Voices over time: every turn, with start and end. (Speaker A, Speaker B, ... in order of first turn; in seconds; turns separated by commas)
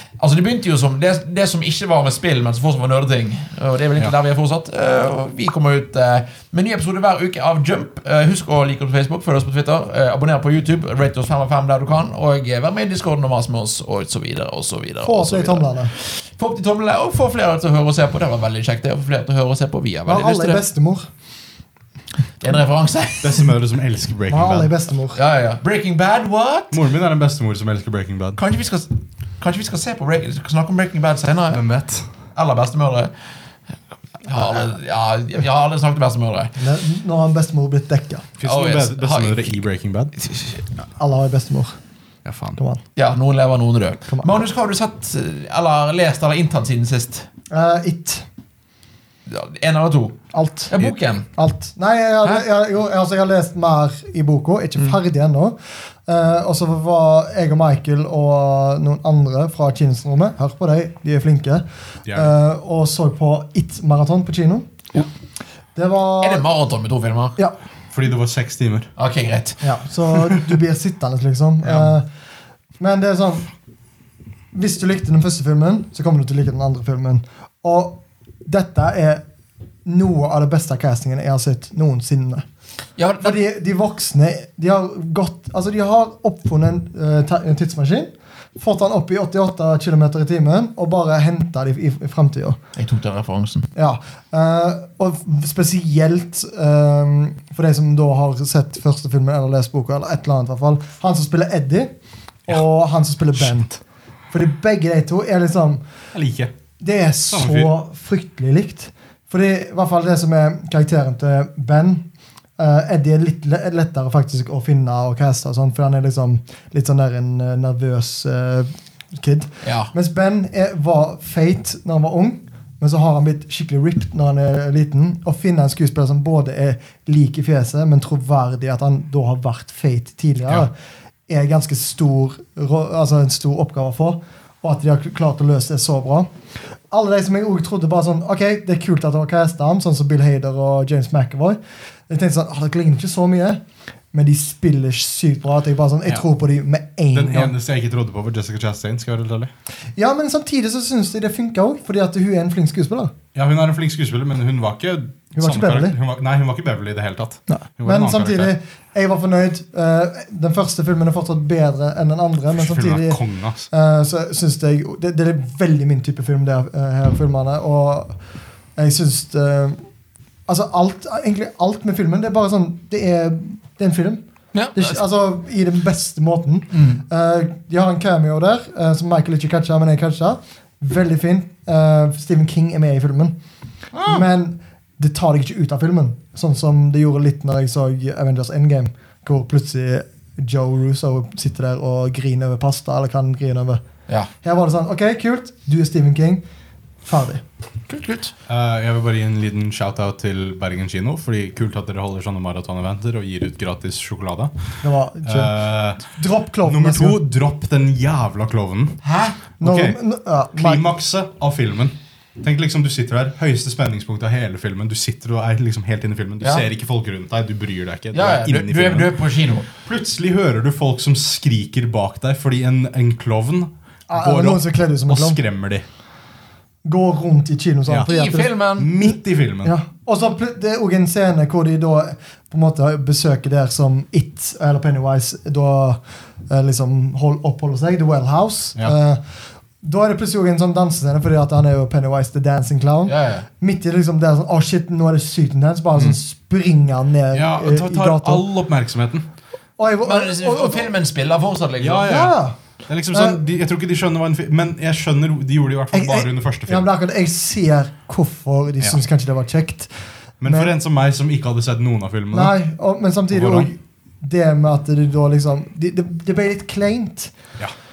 Speaker A: 0.2-20.6, Speaker B: 15.0-15.9, Speaker B: 20.1-21.1, Speaker A: 22.4-23.5, Speaker C: 23.2-24.7, Speaker B: 24.3-25.2, Speaker A: 25.1-26.8, Speaker C: 26.7-28.4, Speaker A: 28.4-31.6, Speaker C: 31.5-32.1, Speaker A: 32.3-33.1, Speaker A: 34.2-36.5, Speaker B: 36.6-38.3, Speaker C: 38.4-40.1, Speaker A: 38.4-39.6, Speaker A: 40.2-40.5, Speaker B: 41.0-41.8, Speaker C: 42.2-42.6, Speaker B: 42.6-42.8, Speaker A: 43.0-47.3, Speaker B: 44.1-44.3, Speaker B: 47.5-48.3, Speaker A: 49.2-50.2, Speaker B: 50.3-50.7, Speaker A: 50.7-51.3, Speaker B: 51.4-55.5, Speaker B: 56.1-64.7, Speaker C: 62.0-62.3, Speaker B: 65.7-66.5, Speaker A: 66.2-67.4, Speaker C: 67.9-68.9, Speaker A: 69.0-69.6, Speaker B: 69.6-72.0, Speaker B: 72.8-73.5, Speaker B: 74.5-79.2, Speaker B: 79.8-82.4, Speaker A: 83.0-83.4, Speaker B: 83.2-92.6, Speaker A: 92.8-93.7, Speaker B: 93.7-101.9, Speaker B: 102.5-103.7, Speaker C: 103.3-103.7, Speaker B: 104.3-105.8, Speaker C: 106.1-106.5, Speaker B: 106.8-112.0, Speaker C: 107.3-107.7, Speaker B: 112.6-130.7, Speaker A: 119.6-119.9, Speaker B: 131.3-136.3, Speaker B: 136.9-141.6, Speaker B: 142.1-143.6, Speaker B: 144.1-147.5, Speaker C: 147.1-149.5, Speaker B: 149.9-153.1, Speaker C: 153.3-158.5, Speaker B: 155.3-155.9, Speaker B: 157.5-168.2, Speaker C: 162.5-163.7, Speaker B: 168.8-169.8, Speaker B: 170.5-174.2, Speaker A: 174.5-175.0, Speaker B: 174.7-183.3, Speaker A: 176.7-177.0, Speaker A: 183.9-184.2, Speaker B: 184.1-193.8, Speaker B: 194.4-196.4, Speaker B: 197.0-197.4, Speaker A: 197.9-198.3, Speaker C: 198.4-206.1, Speaker B: 204.8-207.2, Speaker C: 206.6-209.0, Speaker A: 209.0-209.4, Speaker C: 209.6-210.0, Speaker B: 209.6-210.8, Speaker C: 210.5-219.1, Speaker A: 218.1-219.7, Speaker C: 219.8-225.8, Speaker B: 224.1-225.4, Speaker B: 226.8-229.0, Speaker A: 228.1-228.9, Speaker C: 228.8-229.7, Speaker B: 229.6-239.2, Speaker B: 239.8-248.4, Speaker A: 243.1-243.4, Speaker C: 247.3-249.2, Speaker B: 249.8-250.9, Speaker A: 250.0-252.1, Speaker C: 251.8-256.9, Speaker B: 252.1-252.6, Speaker B: 253.1-253.4, Speaker B: 255.9-259.9, Speaker C: 260.4-262.5, Speaker B: 260.4-260.7, Speaker B: 262.3-267.3, Speaker C: 263.3-263.7